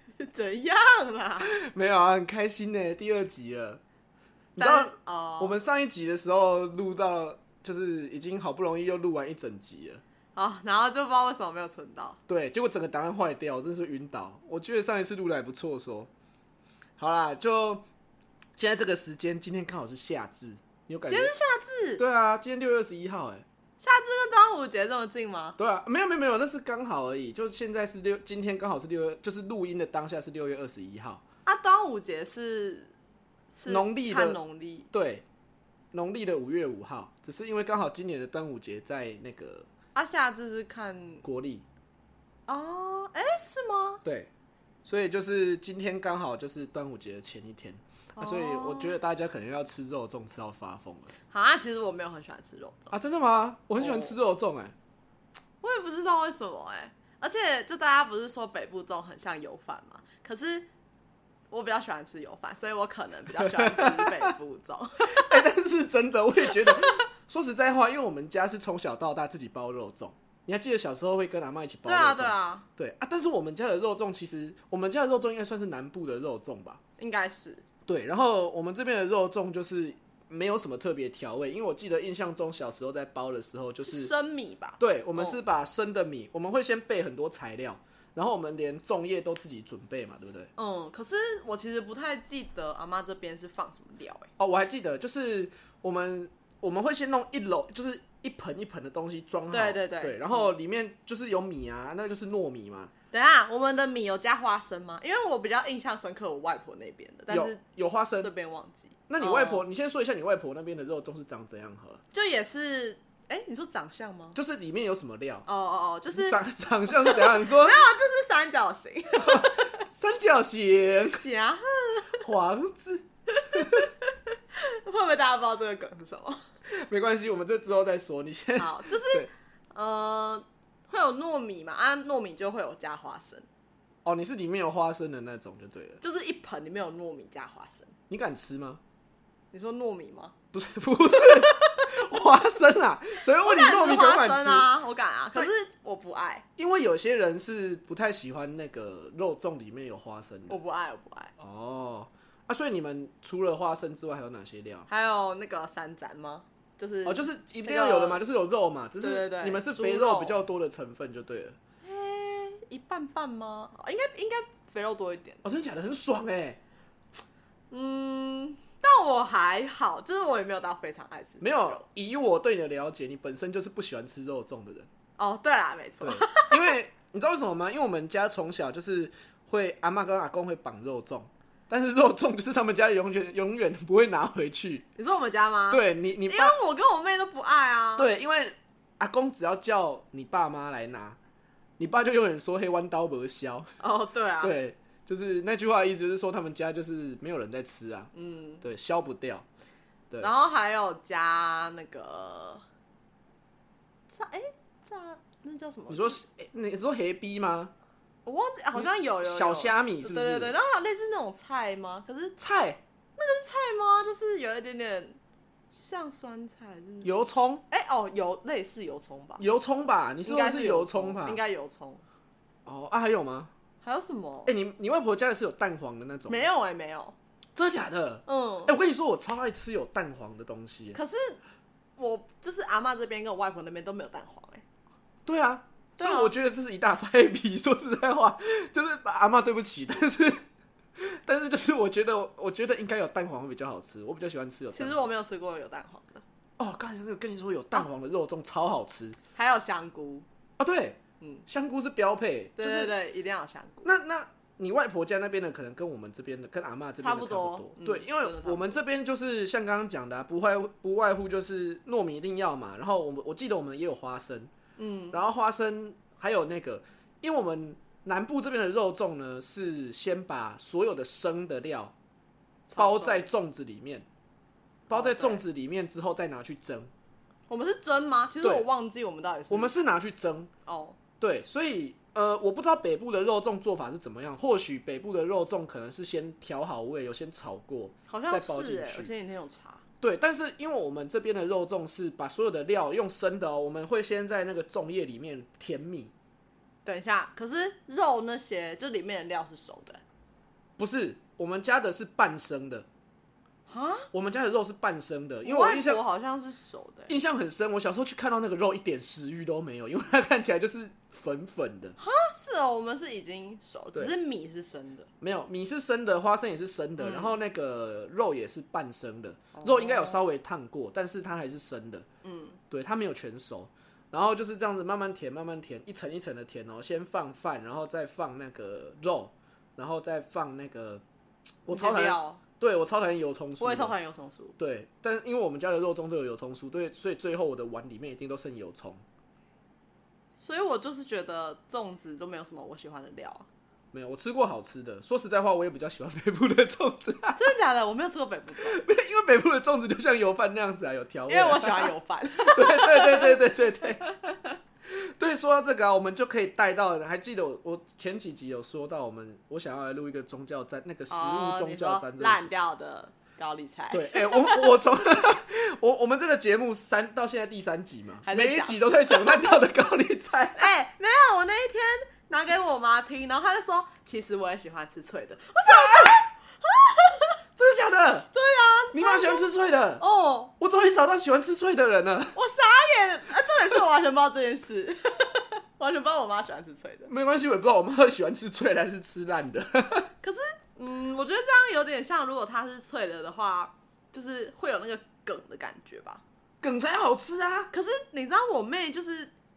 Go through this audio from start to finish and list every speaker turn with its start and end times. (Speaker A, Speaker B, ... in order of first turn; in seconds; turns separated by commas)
Speaker A: 0.2-1.5, Speaker B: 1.4-3.8, Speaker B: 4.5-10.0, Speaker A: 4.6-5.6, Speaker A: 10.3-12.2, Speaker B: 12.3-16.1, Speaker B: 17.0-17.9, Speaker B: 18.6-21.3, Speaker A: 21.1-22.0, Speaker B: 22.0-23.4, Speaker A: 23.8-25.6, Speaker B: 25.6-31.2, Speaker A: 31.4-32.9, Speaker A: 33.5-34.9, Speaker B: 33.7-34.4, Speaker B: 34.9-35.2, Speaker B: 35.9-39.7, Speaker A: 40.0-41.2, Speaker B: 41.2-41.6, Speaker A: 42.5-44.0, Speaker B: 44.0-44.3, Speaker B: 44.9-51.1, Speaker A: 48.2-49.0, Speaker A: 51.3-53.0, Speaker B: 52.9-54.7, Speaker A: 53.8-54.2, Speaker A: 55.6-60.7, Speaker A: 61.5-65.5, Speaker B: 63.4-64.3, Speaker B: 65.0-76.8, Speaker A: 66.5-67.0, Speaker A: 71.8-72.7, Speaker A: 77.0-77.6, Speaker B: 77.9-84.1, Speaker A: 83.8-85.4, Speaker B: 84.8-90.5, Speaker A: 90.6-94.3, Speaker B: 94.4-102.9, Speaker A: 99.5-100.5, Speaker A: 103.1-107.6, Speaker B: 107.3-108.3, Speaker A: 108.2-109.7, Speaker B: 109.1-112.0, Speaker A: 112.1-114.4, Speaker B: 114.3-115.5, Speaker A: 115.5-116.4, Speaker B: 116.1-117.8, Speaker A: 116.9-119.7, Speaker B: 119.2-121.2, Speaker A: 121.2-122.3, Speaker B: 122.2-123.9, Speaker A: 123.3-126.4, Speaker B: 126.7-129.3, Speaker A: 128.6-133.5, Speaker B: 134.1-136.0, Speaker A: 136.0-137.9, Speaker B: 138.1-138.8, Speaker A: 139.5-140.3, Speaker B: 140.5-144.7, Speaker A: 141.1-141.9, Speaker A: 143.4-146.4, Speaker B: 146.6-150.6, Speaker A: 150.5-151.3, Speaker B: 151.4-154.9, Speaker A: 154.9-158.2, Speaker B: 157.1-161.6, Speaker A: 159.0-160.4, Speaker A: 161.8-165.4, Speaker B: 165.4-166.6, Speaker A: 167.7-171.8, Speaker B: 171.4-174.9, Speaker A: 175.2-176.8, Speaker B: 176.0-184.9, Speaker A: 185.0-188.1, Speaker B: 185.7-186.6, Speaker B: 188.0-191.2, Speaker B: 191.8-193.7, Speaker A: 193.8-194.6, Speaker B: 194.4-198.1, Speaker A: 198.1-198.7, Speaker B: 198.6-199.5, Speaker A: 200.2-202.6, Speaker A: 204.1-206.2, Speaker B: 205.9-207.7, Speaker A: 208.2-212.4, Speaker B: 208.8-210.5, Speaker B: 212.4-212.8, Speaker A: 213.2-215.2, Speaker A: 215.8-217.1, Speaker B: 217.0-217.6, Speaker A: 217.7-219.4, Speaker B: 219.4-221.4, Speaker A: 220.2-222.0, Speaker B: 222.7-223.5, Speaker A: 223.8-224.6, Speaker B: 224.5-226.5, Speaker A: 226.3-227.2, Speaker B: 227.6-231.0, Speaker A: 228.3-228.7, Speaker A: 230.9-231.4, Speaker A: 232.0-234.6, Speaker B: 235.3-240.4, Speaker A: 236.0-236.3, Speaker B: 241.0-245.1, Speaker A: 244.7-246.2, Speaker B: 246.6-249.2, Speaker A: 249.3-250.3, Speaker B: 250.6-252.9, Speaker A: 252.6-253.9, Speaker B: 253.8-264.5, Speaker A: 257.0-258.7, Speaker A: 264.8-265.2, Speaker B: 265.1-271.9, Speaker A: 272.7-273.3, Speaker B: 272.8-274.1, Speaker B: 274.9-276.9, Speaker A: 274.9-275.4, Speaker A: 277.5-279.8, Speaker B: 278.4-278.7, Speaker B: 279.5-280.5, Speaker A: 280.7-281.0, Speaker B: 281.2-289.1, Speaker A: 288.1-289.8, Speaker B: 290.0-296.1, Speaker A: 296.9-300.0, Speaker B: 300.8-302.9, Speaker A: 303.7-304.1, Speaker B: 304.1-306.0, Speaker A: 305.4-307.2, Speaker B: 307.1-312.0, Speaker A: 312.0-315.1, Speaker B: 315.2-322.1, Speaker A: 317.0-317.4, Speaker A: 319.5-320.2, Speaker A: 322.2-322.6, Speaker B: 322.7-331.0, Speaker B: 331.6-334.0, Speaker A: 331.7-332.4, Speaker A: 333.6-334.6, Speaker B: 334.6-339.0, Speaker A: 340.4-343.5, Speaker B: 343.9-347.4, Speaker A: 347.4-348.8, Speaker B: 348.6-354.0, Speaker A: 351.3-354.6, Speaker B: 354.9-362.5, Speaker A: 361.1-364.8, Speaker B: 363.9-370.7, Speaker A: 368.2-369.5, Speaker A: 370.6-377.4, Speaker B: 375.7-376.3, Speaker B: 377.6-378.3, Speaker A: 378.3-380.5, Speaker B: 378.9-380.0, Speaker B: 380.6-382.4, Speaker A: 382.4-387.1, Speaker B: 387.1-390.1, Speaker A: 390.2-396.2, Speaker B: 396.6-397.7, Speaker A: 397.7-399.3